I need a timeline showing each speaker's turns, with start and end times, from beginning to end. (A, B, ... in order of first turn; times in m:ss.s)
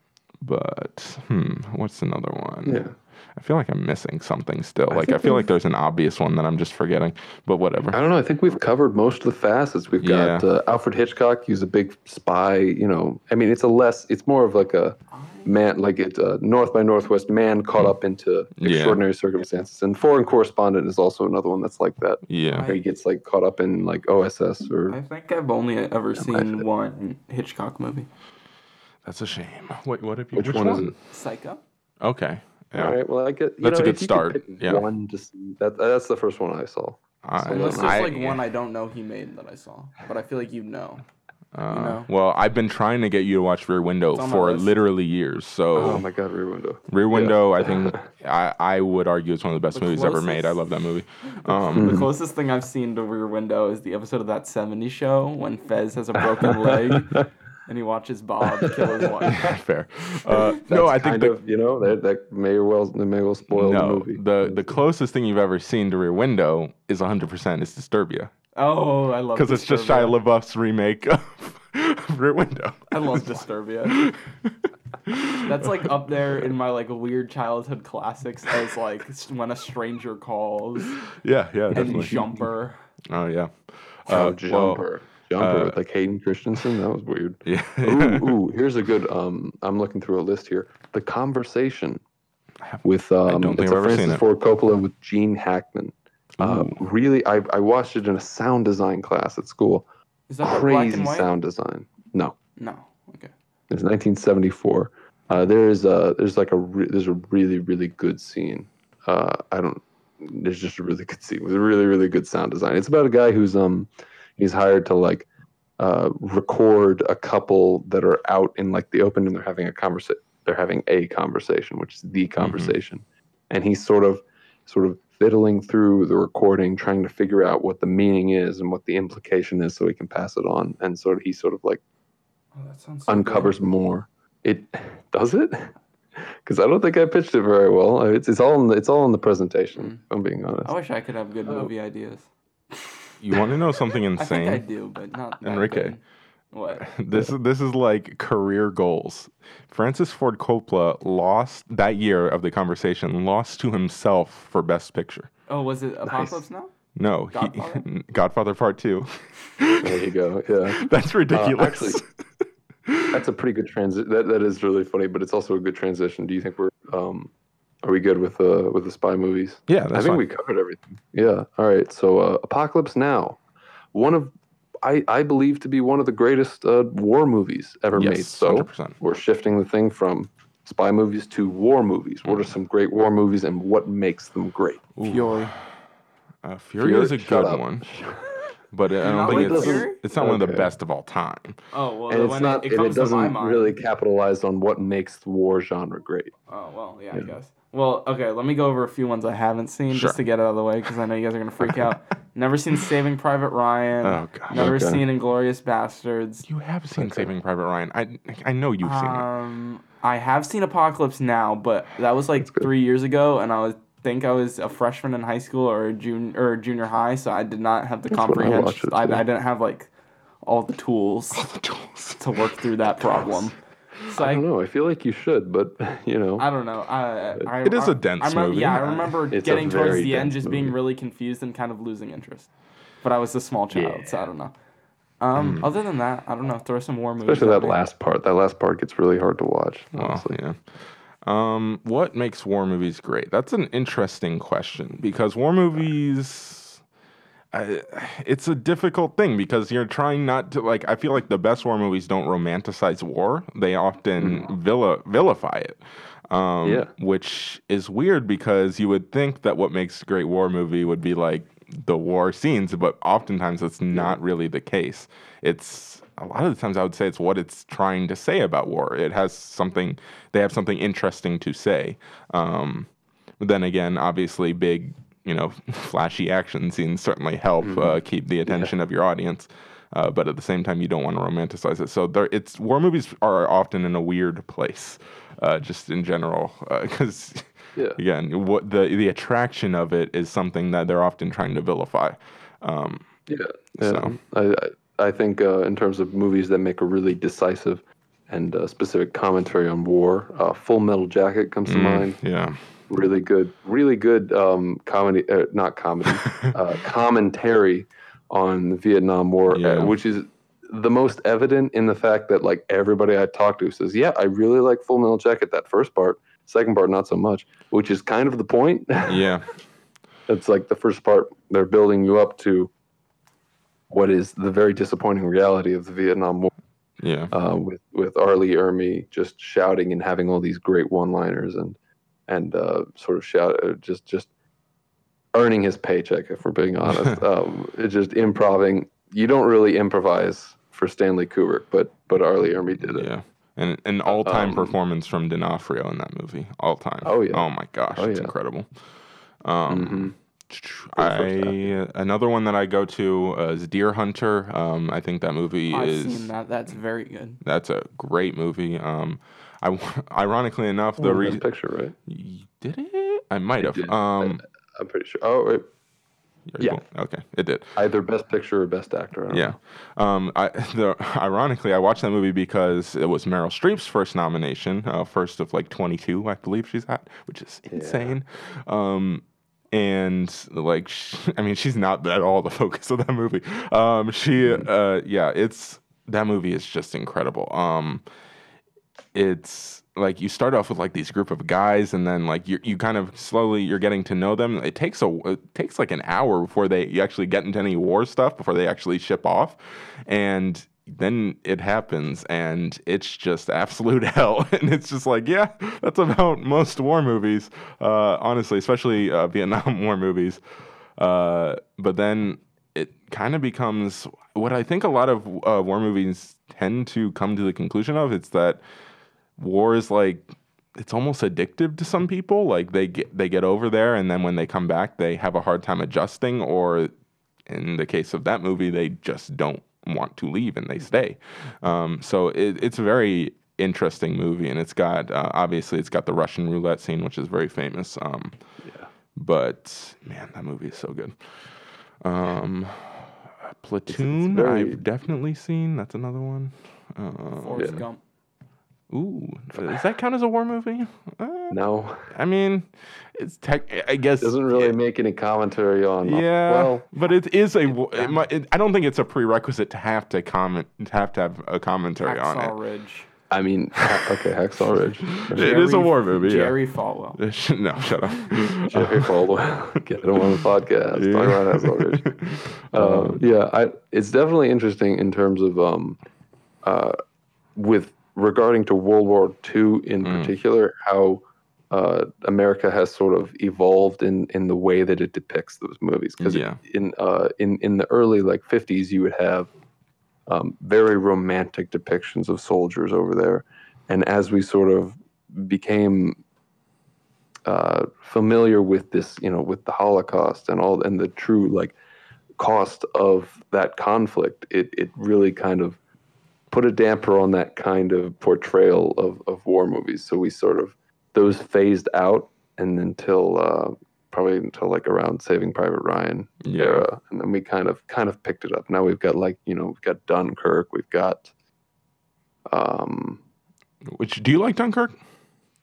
0:00.4-0:08.0 A
0:02.7-0:03.0 B
0:04.9-0:05.4 B
0:07.9-0:25.0 B
0:10.0-0:10.5 A
0:15.1-0:15.6 C
0:18.6-0:19.0 A
0:22.3-0:22.7 A
0:22.5-0:22.8 C
0:24.9-0:28.1 C
0:26.2-0:26.6 B
0:29.0-0:31.0 A
0:30.3-0:30.9 B
0:31.1-0:31.6 C
0:32.0-0:33.0 A
0:32.7-0:38.0 B
0:33.6-0:34.8 A
0:37.2-0:38.4 A
0:37.5-0:41.0 C
0:41.5-0:46.0 A
0:41.7-0:42.1 C
0:44.1-0:44.7 C
0:45.8-0:48.0 B
0:46.9-0:52.0 A
0:49.7-0:50.6 C
0:51.4-0:59.5 C
0:51.8-0:52.1 B
0:56.4-0:57.3 B
0:58.4-0:59.5 B
0:59.3-1:01.4 A
1:00.5-1:04.8 B
1:03.5-1:08.3 A
1:08.6-1:10.2 C
1:09.3-1:13.3 A
1:12.9-1:14.0 C
1:13.9-1:16.5 A
1:15.4-1:21.1 C
1:21.2-1:22.2 A
1:21.7-1:22.4 B
1:21.7-1:22.8 C
1:23.1-1:24.8 A
1:24.1-1:32.0 B
1:25.4-1:25.8 A
1:27.4-1:28.3 A
1:32.6-1:34.2 A
1:32.8-1:39.8 B
1:36.4-1:36.8 A
1:40.3-1:41.3 C
1:40.4-1:42.4 B
1:42.6-1:43.3 C
1:43.7-1:55.3 B
1:55.8-2:11.8 B
2:02.4-2:02.8 A
2:12.6-2:13.6 C
2:13.1-2:20.7 B
2:20.6-2:26.0 C
2:23.2-2:24.6 A
2:25.4-2:26.0 A
2:26.5-2:27.0 C
2:26.8-2:35.3 A
2:35.5-2:36.7 C
2:36.1-2:36.4 B
2:37.0-2:40.1 A
2:37.3-2:37.8 C
2:39.8-2:42.0 B
2:40.8-2:43.2 A
2:43.1-2:47.3 B
2:47.8-2:53.4 B
2:49.7-2:50.2 A
2:53.9-3:04.9 B
2:58.0-2:59.0 A
3:05.0-3:05.7 A
3:05.0-3:05.5 C
3:06.4-3:07.9 A
3:06.8-3:08.5 B
3:08.7-3:11.6 A
3:09.0-3:10.0 C
3:09.2-3:10.7 B
3:11.7-3:13.7 C
3:12.1-3:16.3 B
3:16.5-3:26.5 C
3:19.9-3:20.2 A
3:21.7-3:21.9 A
3:24.0-3:24.8 A
3:24.6-3:25.0 B
3:26.5-3:29.3 A
3:27.0-3:27.3 B
3:28.8-3:39.9 C
3:38.1-3:39.2 B
3:40.4-3:41.5 C
3:41.3-3:43.5 A
3:42.2-3:44.4 C
3:44.1-3:46.4 B
3:46.4-3:52.5 C
3:47.6-3:49.2 A
3:49.3-3:50.8 B
3:53.0-3:54.5 C
3:53.7-3:54.0 B
3:55.2-3:57.8 C
3:55.4-3:55.7 A
3:57.2-4:00.4 B
4:00.0-4:06.8 A
4:07.5-4:53.1 A
4:14.2-4:14.5 B
4:16.6-4:16.9 B
4:37.6-4:38.7 B
4:53.3-5:02.2 B
4:53.8-4:54.2 A
5:01.7-5:02.6 A
5:02.9-5:19.4 B
5:06.3-5:06.5 A
5:09.5-5:10.0 A
5:19.1-5:19.5 A
5:20.3-5:22.7 B
5:23.9-5:26.5 B
5:27.0-5:27.3 A
5:27.3-5:31.8 B
5:32.3-5:34.3 B
5:35.3-5:43.1 B
5:42.9-5:48.7 A
5:44.1-5:44.8 B
5:47.0-5:48.3 B
5:49.4-5:56.3 A
5:49.7-5:50.2 B
5:51.0-5:51.7 B
5:55.7-5:57.4 C
5:57.4-6:01.4 A
6:01.0-6:02.0 B
6:02.1-6:04.4 A
6:03.6-6:05.7 B
6:06.5-6:07.8 A
6:07.8-6:09.6 B
6:09.3-6:28.0 A
6:17.7-6:18.2 B
6:24.4-6:24.7 B
6:29.1-6:50.4 A
6:51.0-6:58.6 A
6:59.4-7:06.9 A
7:07.5-7:18.4 A
7:18.6-7:18.9 B
7:19.2-7:27.8 A
7:23.9-7:24.8 B
7:27.4-7:28.0 C
7:28.9-7:34.8 A
7:31.5-7:32.1 B
7:34.2-7:36.9 B
7:36.0-7:42.5 A
7:42.0-7:43.1 C
7:43.3-7:45.4 B
7:45.3-7:46.6 A
7:45.4-7:47.2 C
7:47.2-7:49.1 A
7:48.7-7:52.1 B
7:51.0-7:53.2 A
7:52.7-7:56.0 B
7:56.6-7:57.0 B
7:57.6-8:09.5 B
8:00.0-8:00.3 A
8:06.2-8:06.6 A
8:10.3-8:16.2 B
8:17.5-8:21.8 B
8:22.4-8:25.8 B
8:26.5-8:41.3 B
8:36.4-8:36.9 A
8:42.5-8:43.2 B
8:43.8-8:45.0 A